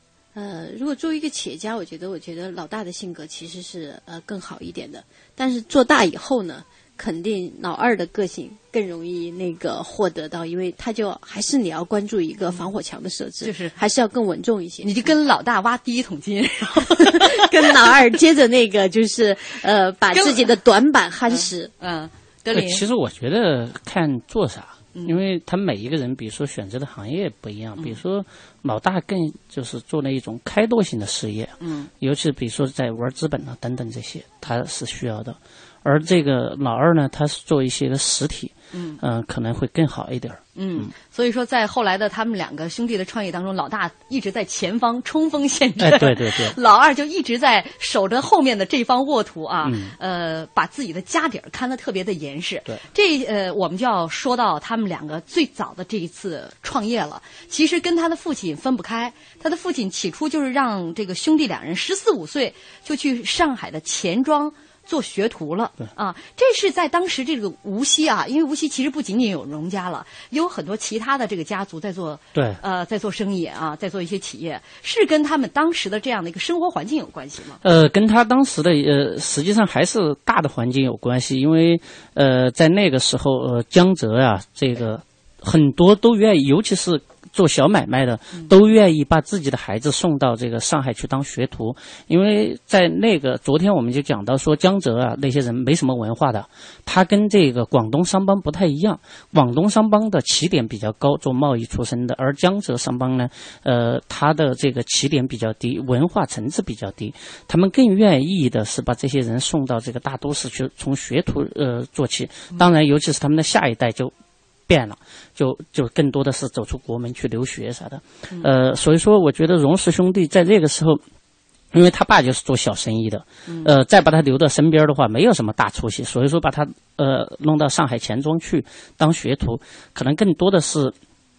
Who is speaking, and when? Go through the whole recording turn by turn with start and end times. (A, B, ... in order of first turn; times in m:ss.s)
0:00.3-0:14.9 A
0:13.4-0:13.7 B
0:14.8-0:17.7 B
0:17.0-0:21.7 A
0:20.1-0:20.5 B
0:21.3-0:22.8 B
0:22.5-0:40.9 C
0:31.6-0:31.9 B
0:38.7-0:39.0 B
0:40.6-1:17.6 B
0:45.8-0:46.6 C
0:49.6-0:49.9 C
1:17.6-1:54.1 C
1:54.7-2:01.0 C
2:01.7-2:10.9 C